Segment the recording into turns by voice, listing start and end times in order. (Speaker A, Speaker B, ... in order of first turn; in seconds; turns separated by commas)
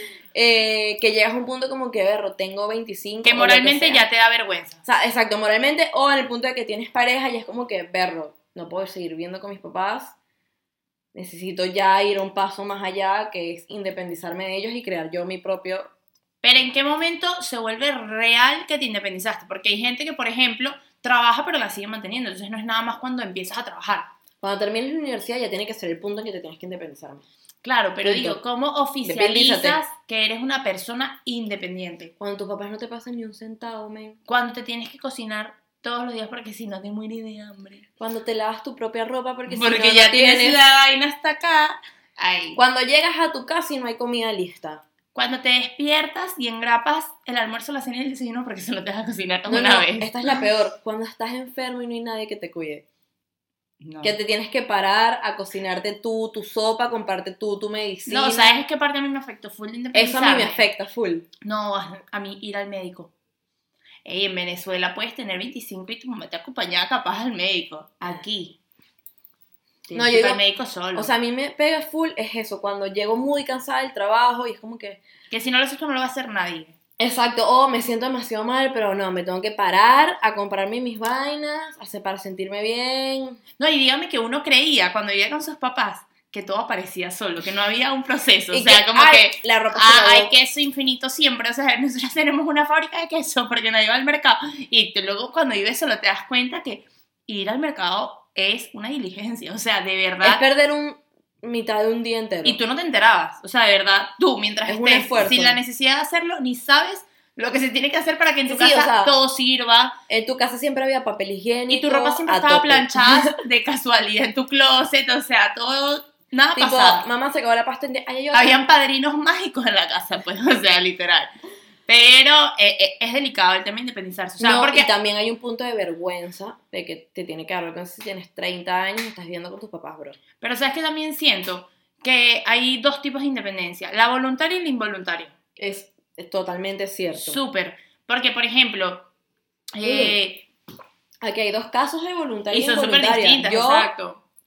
Speaker A: 0.3-4.0, Speaker B: 3.2-4.8, Speaker A: 4.8-10.2, Speaker A: 11.1-15.9, Speaker B: 16.4-24.1, Speaker A: 24.4-27.2, Speaker B: 27.6-32.1, Speaker A: 28.0-28.4, Speaker A: 29.0-29.8, Speaker A: 32.2-34.2, Speaker B: 34.3-37.9, Speaker A: 38.0-40.6, Speaker B: 39.5-42.6, Speaker A: 42.6-44.8, Speaker B: 45.1-50.4, Speaker A: 49.5-52.9, Speaker B: 53.8-54.2, Speaker A: 54.0-58.6, Speaker B: 58.1-60.7, Speaker A: 59.9-61.3, Speaker B: 61.4-63.1, Speaker B: 64.0-68.6, Speaker B: 69.9-71.1, Speaker A: 69.9-70.4, Speaker A: 70.9-75.0, Speaker B: 75.3-76.8, Speaker A: 77.0-83.4, Speaker B: 83.6-100.4, Speaker A: 88.5-90.3, Speaker A: 100.2-102.6, Speaker B: 102.4-110.0, Speaker A: 104.7-105.6, Speaker A: 108.5-109.1, Speaker A: 110.1-113.3, Speaker B: 111.7-117.0, Speaker A: 116.6-118.6, Speaker B: 118.3-121.3, Speaker B: 121.9-124.9, Speaker A: 124.4-130.2, Speaker B: 130.4-135.3, Speaker A: 135.6-137.4, Speaker B: 137.2-139.1, Speaker B: 139.8-140.5, Speaker A: 139.8-140.2, Speaker A: 141.2-143.9, Speaker B: 142.5-144.2